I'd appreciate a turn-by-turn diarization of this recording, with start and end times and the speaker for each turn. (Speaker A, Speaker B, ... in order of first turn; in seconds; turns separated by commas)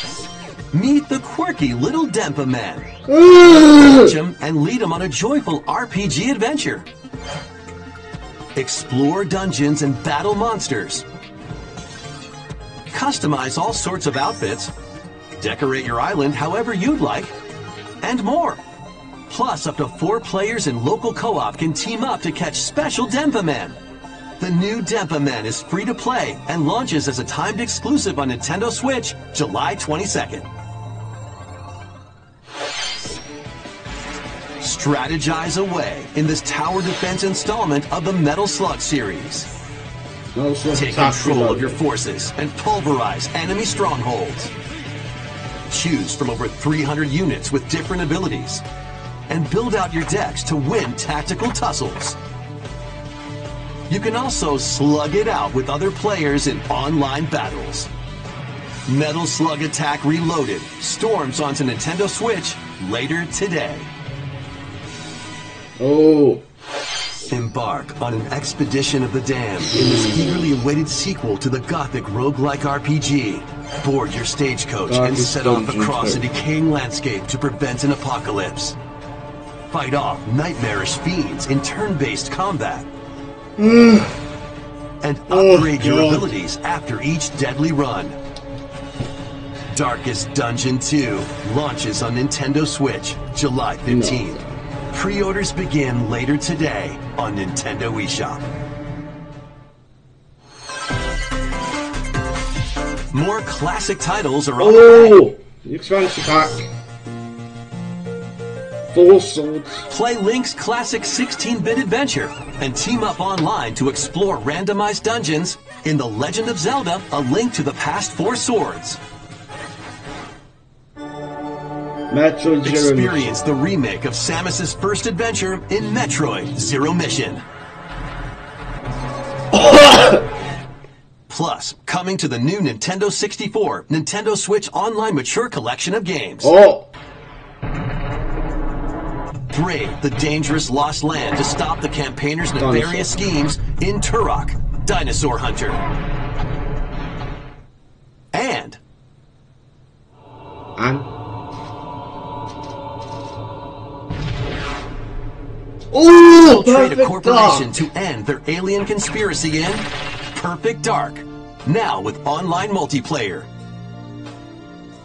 Speaker A: 0.7-2.9, Speaker B: 3.1-4.1, Speaker A: 3.9-6.9, Speaker A: 8.5-11.0, Speaker A: 12.9-14.7, Speaker A: 15.4-17.4, Speaker A: 18.0-18.6, Speaker A: 19.3-23.8, Speaker A: 24.4-30.5, Speaker A: 34.6-39.5, Speaker B: 40.3-41.8, Speaker A: 40.7-44.5, Speaker A: 45.7-48.6, Speaker A: 49.3-52.2, Speaker A: 53.9-57.9, Speaker A: 58.9-63.9, Speaker B: 65.8-66.4, Speaker A: 67.3-78.8, Speaker B: 69.7-70.4, Speaker B: 74.9-76.2, Speaker A: 79.7-82.9, Speaker B: 83.6-84.2, Speaker A: 85.0-88.2, Speaker B: 85.3-86.3, Speaker A: 89.7-94.4, Speaker B: 93.8-94.6, Speaker A: 94.9-98.5, Speaker A: 103.1-105.2, Speaker B: 104.6-106.7, Speaker B: 108.9-109.8, Speaker A: 109.9-119.0, Speaker B: 122.1-123.1, Speaker A: 122.6-127.4, Speaker B: 129.5-130.3, Speaker A: 131.3-136.5, Speaker B: 136.4-136.9, Speaker A: 139.5-145.8, Speaker B: 142.6-143.2, Speaker A: 148.3-148.8, Speaker B: 150.8-151.1, Speaker B: 155.9-157.8, Speaker A: 156.5-163.5